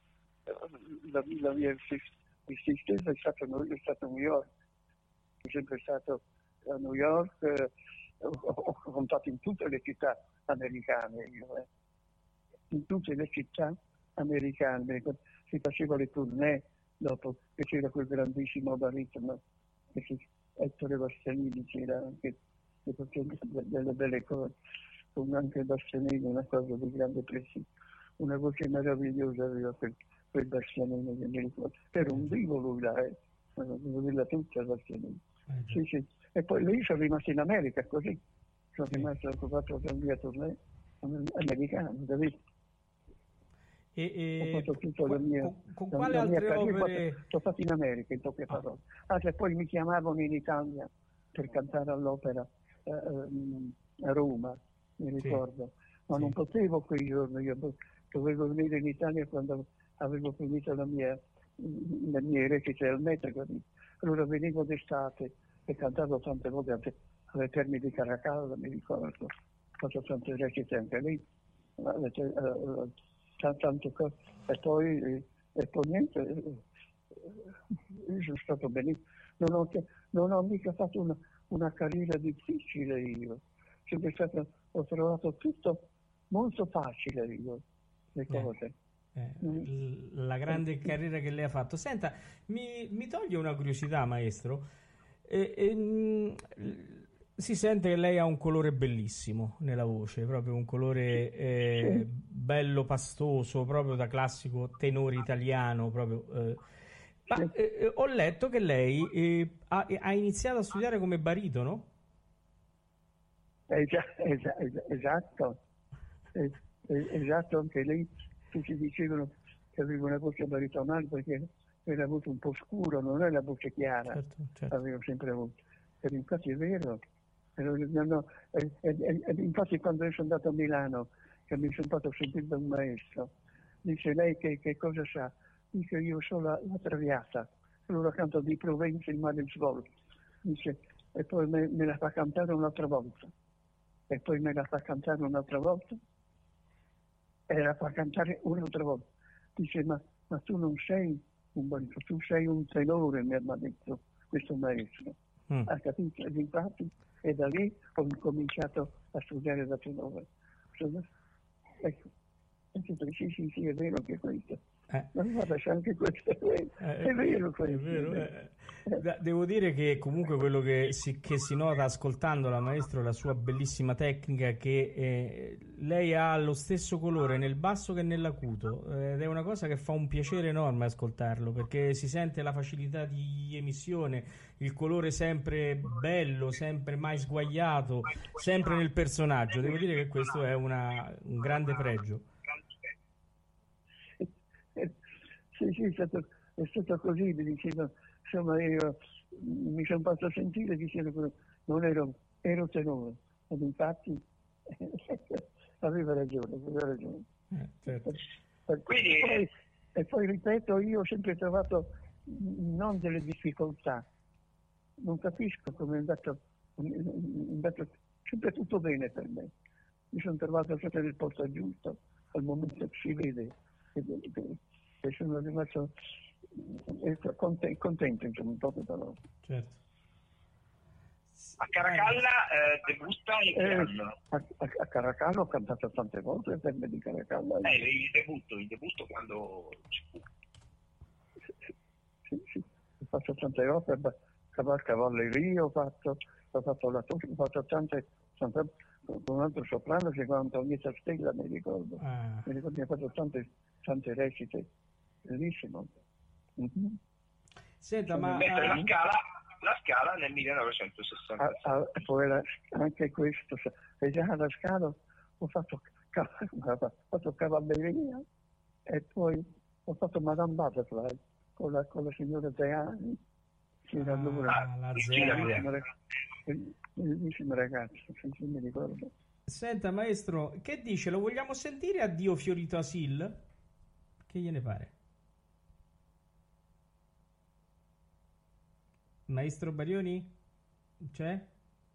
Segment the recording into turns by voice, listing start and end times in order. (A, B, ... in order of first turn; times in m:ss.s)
0:00.5-0:04.5 A
0:05.4-0:07.7 A
0:08.2-0:11.7 A
0:12.7-0:19.4 A
0:19.9-0:24.6 A
0:25.2-0:27.7 A
0:28.2-0:38.2 A
0:35.5-0:35.8 B
0:38.7-0:42.4 A
0:44.0-0:47.2 B
0:44.4-1:11.2 A
1:11.8-1:16.6 A
1:17.9-1:27.6 A
1:28.1-1:28.7 A
1:29.2-1:34.7 B
1:35.3-1:46.6 B
1:41.8-1:42.0 A
1:47.3-1:51.9 B
1:53.7-1:55.6 A
1:56.3-2:07.0 A
2:04.1-2:04.7 B
2:07.6-2:13.3 A
2:13.8-2:19.9 A
2:20.4-2:23.3 A
2:24.1-2:26.0 A
2:27.5-2:29.0 A
2:29.6-2:35.1 A
2:35.7-2:41.0 A
2:41.8-2:42.1 A
2:42.7-2:44.6 A
2:45.1-2:48.3 A
2:46.8-3:12.2 B
3:14.2-3:14.9 A
3:15.5-3:27.2 A
3:27.5-3:28.2 B
3:28.7-3:34.0 A
3:28.9-3:29.4 C
3:35.0-3:39.5 A
3:40.1-3:45.9 A
3:46.5-3:49.2 A
3:49.4-3:49.8 B
3:51.4-3:52.2 B
3:51.6-3:54.1 C
3:53.5-3:57.8 A
3:57.6-4:00.2 C
4:02.3-4:14.7 A
4:12.0-4:12.5 B
4:15.2-4:15.9 A
4:16.6-4:17.0 A
4:17.8-4:18.8 B
4:18.2-4:21.6 C
4:18.6-4:18.9 A
4:21.4-4:28.2 A
4:28.9-4:33.2 A
4:33.9-4:35.8 A
4:34.0-4:35.7 B
4:35.0-4:35.7 C
4:36.5-4:39.1 A
4:39.5-4:43.4 B
4:44.3-4:44.9 B
4:49.3-4:50.3 B
4:51.0-4:51.5 B